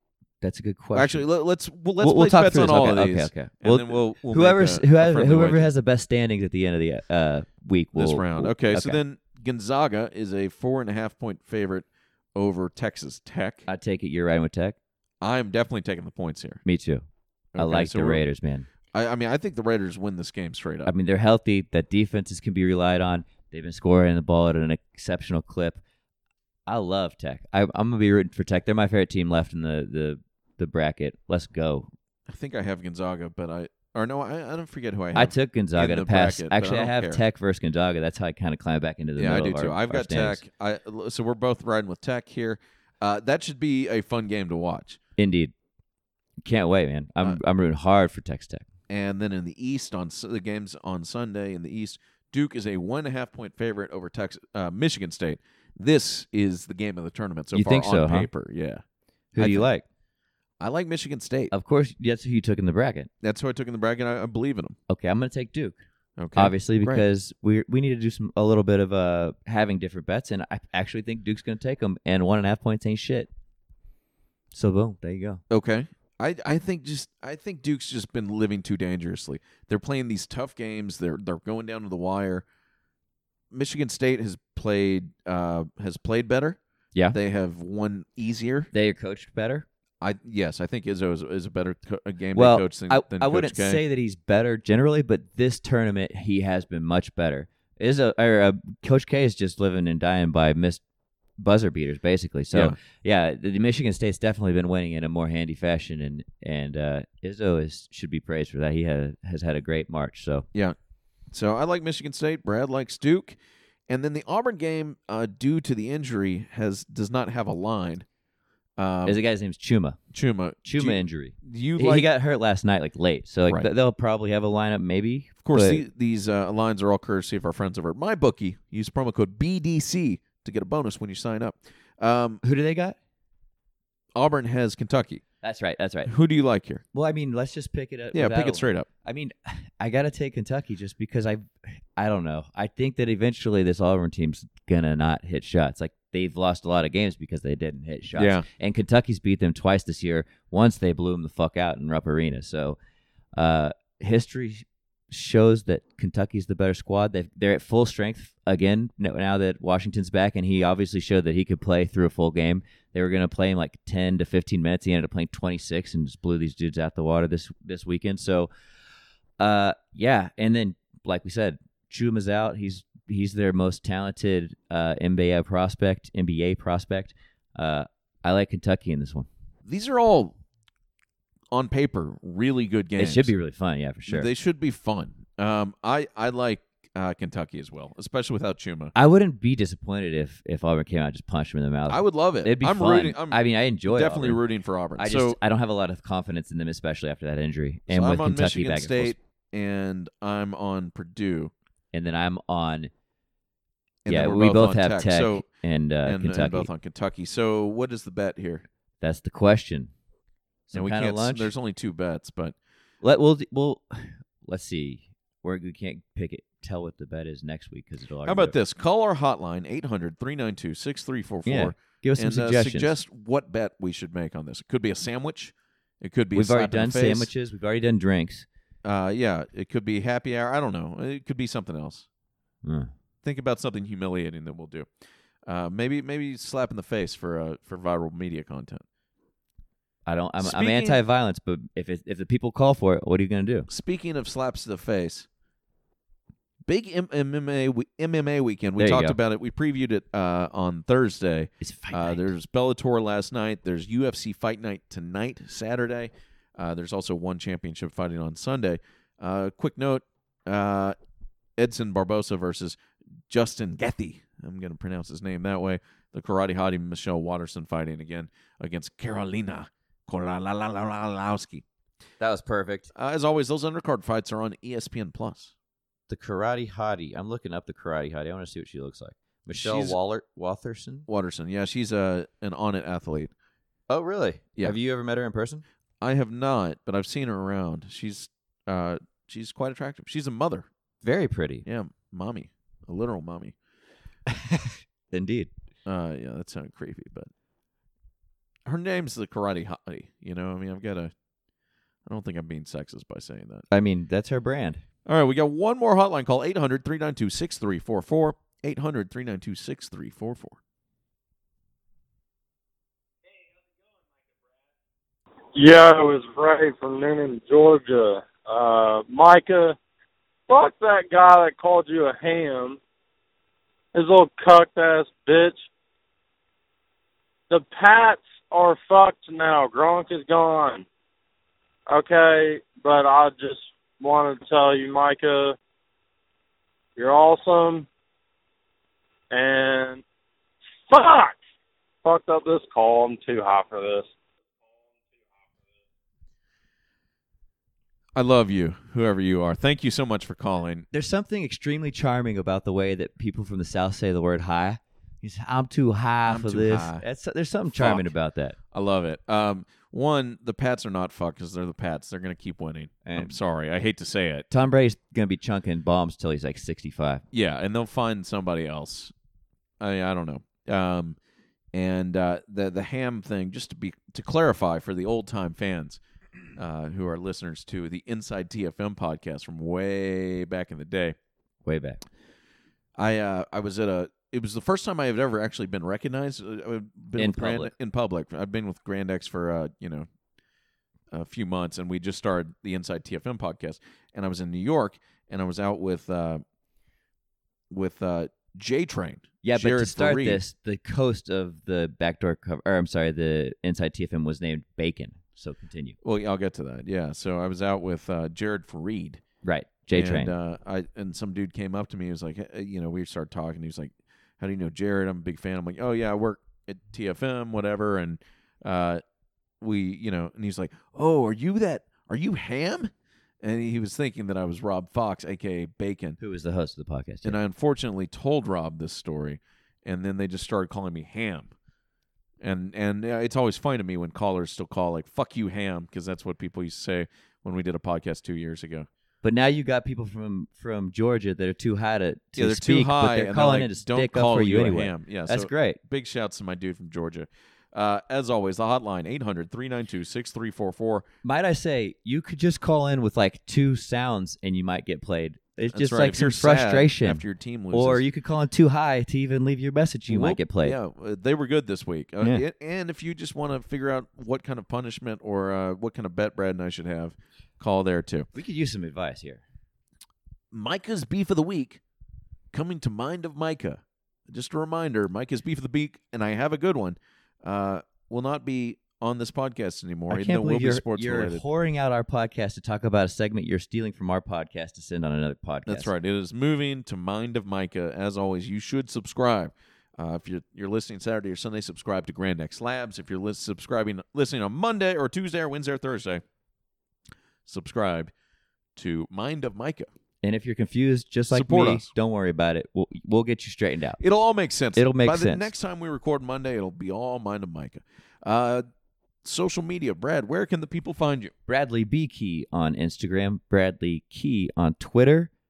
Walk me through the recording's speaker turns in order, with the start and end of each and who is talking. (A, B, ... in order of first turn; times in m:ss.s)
0:00.4-0:01.2 A
0:00.9-0:05.7 B
0:02.0-0:09.0 A
0:07.9-0:13.7 B
0:13.7-0:14.8 A
0:15.2-0:16.6 B
0:16.6-0:17.0 A
0:17.5-0:18.2 B
0:17.6-0:18.6 A
0:18.9-0:20.9 B
0:20.8-0:25.8 A
0:26.7-0:31.9 A
0:32.3-0:37.2 B
0:35.1-0:40.4 A
0:39.2-0:45.0 B
0:45.2-0:45.5 A
0:46.4-0:48.6 A
0:48.9-0:58.8 B
0:57.5-0:58.3 A
0:59.3-0:59.8 A
0:59.4-0:59.7 B
1:00.6-1:01.5 B
1:01.5-1:03.1 A
1:03.2-1:04.8 B
1:04.9-1:05.8 A
1:06.2-1:07.0 B
1:06.3-1:13.3 A
1:14.5-1:15.4 A
1:15.5-1:22.4 B
1:23.5-1:26.6 B
1:27.1-1:28.7 B
1:28.7-1:29.6 A
1:30.0-1:33.8 B
1:32.3-1:40.8 A
1:41.4-1:50.4 A
1:42.5-1:42.8 B
1:51.3-1:58.0 B
1:58.8-1:59.2 B
1:59.0-2:00.0 A
2:00.1-2:02.1 B
2:00.6-2:05.8 A
2:05.4-2:12.4 B
2:12.4-2:13.0 A
2:14.1-2:15.2 B
2:15.4-2:16.1 A
2:16.0-2:16.8 B
2:16.9-2:32.8 A
2:18.1-2:18.9 B
2:28.1-2:28.4 B
2:33.3-2:48.5 A
2:49.4-2:59.3 A
2:59.6-3:00.3 B
3:01.5-3:03.3 B
3:03.0-3:04.3 A
3:04.1-3:08.9 B
3:08.9-3:14.4 A
3:11.9-3:15.4 B
3:15.0-3:19.1 A
3:17.9-3:21.5 B
3:21.9-3:22.9 A
3:24.0-3:25.4 B
3:24.1-3:26.7 A
3:26.0-3:28.6 B
3:29.0-3:29.9 A
3:30.7-3:31.5 A
3:30.7-3:32.6 B
3:33.0-3:38.5 A
3:38.2-3:47.3 B
3:41.4-3:42.9 A
3:46.3-3:48.4 A
3:48.8-3:52.0 B
3:52.6-3:52.9 A
3:53.2-3:54.9 B
3:55.4-3:58.8 B
4:00.0-4:03.7 A
4:00.4-4:01.0 B
4:03.7-4:05.3 B
4:06.6-4:20.9 B
4:08.8-4:09.2 A
4:11.6-4:12.3 A
4:21.6-4:22.8 B
4:23.3-4:31.6 B
4:32.2-4:32.9 A
4:32.9-4:35.5 B
4:36.1-4:41.1 A
4:39.5-4:40.0 B
4:41.1-4:43.3 B
4:43.9-4:45.6 A
4:46.0-4:50.7 B
4:51.0-4:51.6 A
4:51.6-4:53.5 B
4:54.3-4:55.5 A
4:55.8-4:57.3 B
4:58.6-5:01.1 B
5:02.0-5:03.7 B
5:03.7-5:04.8 A
5:05.0-5:10.6 B
5:15.5-5:19.8 C
5:20.5-5:22.8 C
5:23.9-5:25.6 C
5:27.5-5:30.8 C
5:31.9-5:35.6 C
5:37.0-5:37.9 C
5:39.3-5:40.0 C
5:40.9-5:41.4 C
5:42.0-5:44.1 C
5:48.2-5:50.9 B
5:50.9-5:58.6 A
5:56.3-5:57.0 B
5:57.7-5:58.1 B
5:58.7-6:04.5 B
6:03.0-6:03.3 A
6:04.5-6:07.2 A
6:07.3-6:09.1 B
6:09.8-6:11.2 B
6:11.7-6:16.0 B
6:16.6-6:21.2 B
6:21.6-6:22.0 A
6:23.0-6:30.1 B
6:27.2-6:27.7 A
6:31.1-6:36.4 B
6:37.7-6:40.4 B
6:39.4-6:46.0 A
6:46.0-6:49.2 B
6:49.4-6:50.3 A
6:49.9-6:59.0 B
6:59.6-7:06.2 B
7:06.2-7:07.4 A
7:07.2-7:11.5 B
7:12.4-7:18.9 B
7:19.2-7:25.8 A
7:22.4-7:31.0 B
7:31.2-7:40.8 A
7:35.7-7:38.0 B
7:40.1-7:48.3 B
7:48.3-7:49.4 A
7:50.5-7:51.8 B
7:52.5-8:01.4 B
8:00.1-8:05.9 A
8:05.7-8:16.2 B
8:17.4-8:18.1 B
8:18.7-8:19.9 B
8:20.2-8:24.0 A
8:21.3-8:21.9 B
8:24.0-8:28.6 B
8:24.8-8:25.5 A
8:29.2-8:31.3 B
8:31.5-8:35.3 A